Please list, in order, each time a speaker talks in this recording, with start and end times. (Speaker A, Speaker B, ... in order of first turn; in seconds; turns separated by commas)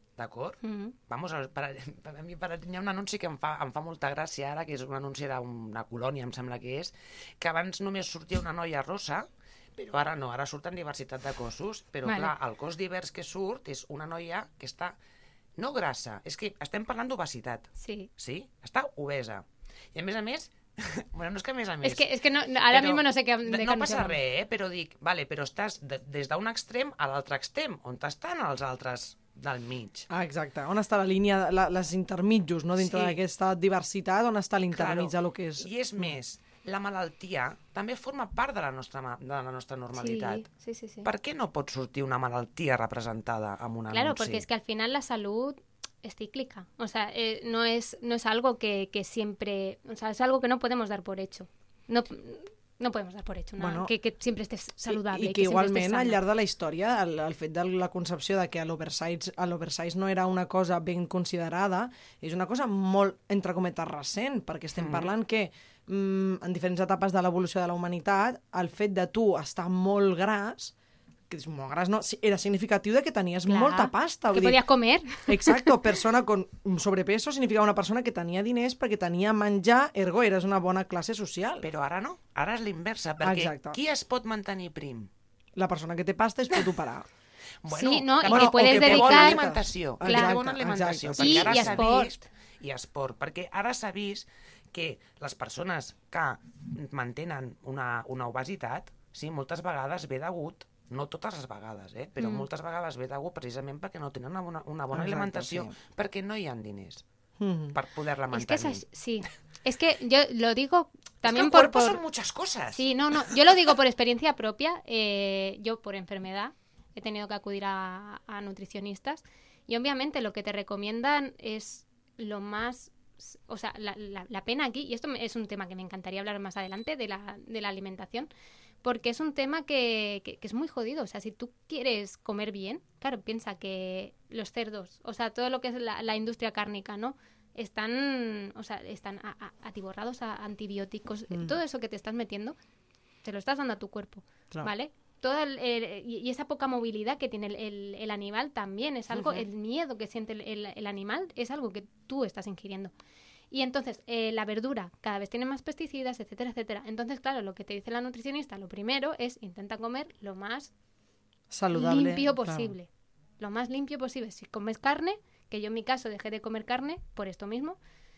Speaker A: 0.2-15.0, Speaker B: 0.6-0.9, Speaker B: 12.0-12.3, Speaker A: 15.6-30.1, Speaker B: 17.8-18.1, Speaker B: 21.8-24.2, Speaker C: 30.1-36.1, Speaker A: 32.8-33.2, Speaker A: 34.7-40.5, Speaker B: 39.9-41.1, Speaker A: 41.0-44.4, Speaker B: 43.9-56.2, Speaker C: 53.6-53.9, Speaker C: 54.9-70.7, Speaker A: 64.8-65.1, Speaker C: 71.3-74.6, Speaker B: 73.5-75.8, Speaker C: 75.2-81.7, Speaker A: 81.6-85.1, Speaker C: 83.2-83.8, Speaker C: 85.5-87.1, Speaker A: 87.6-107.0, Speaker B: 87.7-89.4, Speaker C: 88.2-91.9, Speaker B: 90.0-90.4, Speaker B: 91.2-92.2, Speaker B: 102.2-102.5, Speaker C: 104.9-105.7, Speaker C: 107.4-107.8, Speaker A: 107.7-108.8, Speaker B: 108.3-112.0, Speaker A: 111.2-113.4, Speaker B: 112.7-128.3, Speaker B: 128.8-142.6, Speaker C: 141.3-141.6, Speaker B: 143.2-152.9, Speaker B: 153.5-160.7, Speaker C: 161.5-162.7, Speaker B: 161.7-167.8